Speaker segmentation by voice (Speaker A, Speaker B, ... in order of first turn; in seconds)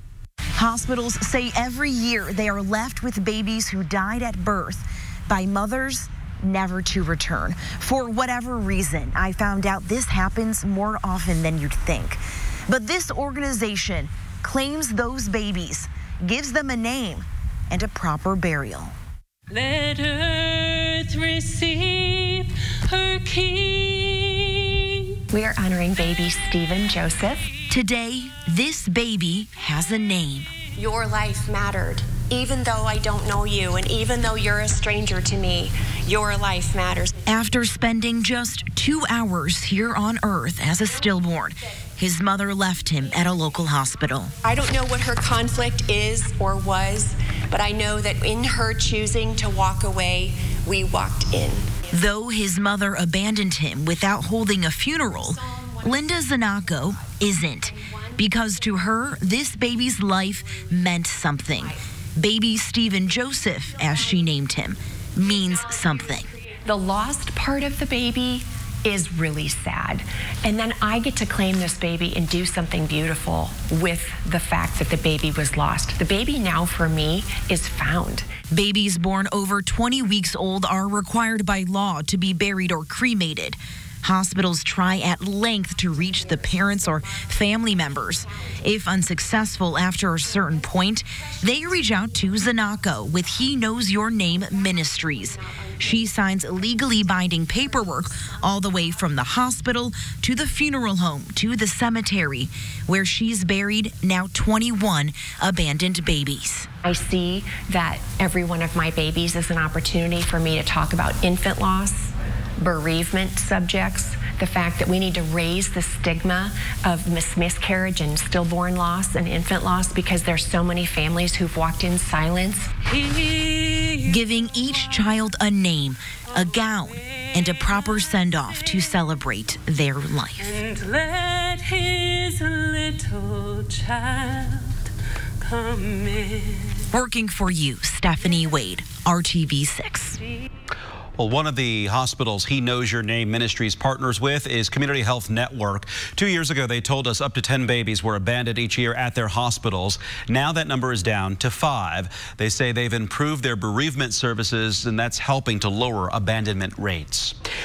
Speaker A: 0.6-18.9, 27.7-30.5, 37.3-44.3, 51.9-66.3, 78.5-106.7, 124.1-130.5, 136.9-140.2
Speaker B: 19.5-25.2, 122.9-124.1, 130.4-134.9, 135.4-136.9
Speaker C: 25.3-27.5, 30.8-37.2, 44.4-51.8, 66.5-78.3, 85.9-88.6, 91.7-92.3, 94.3-98.8, 106.8-122.7
Speaker D: 141.2-157.3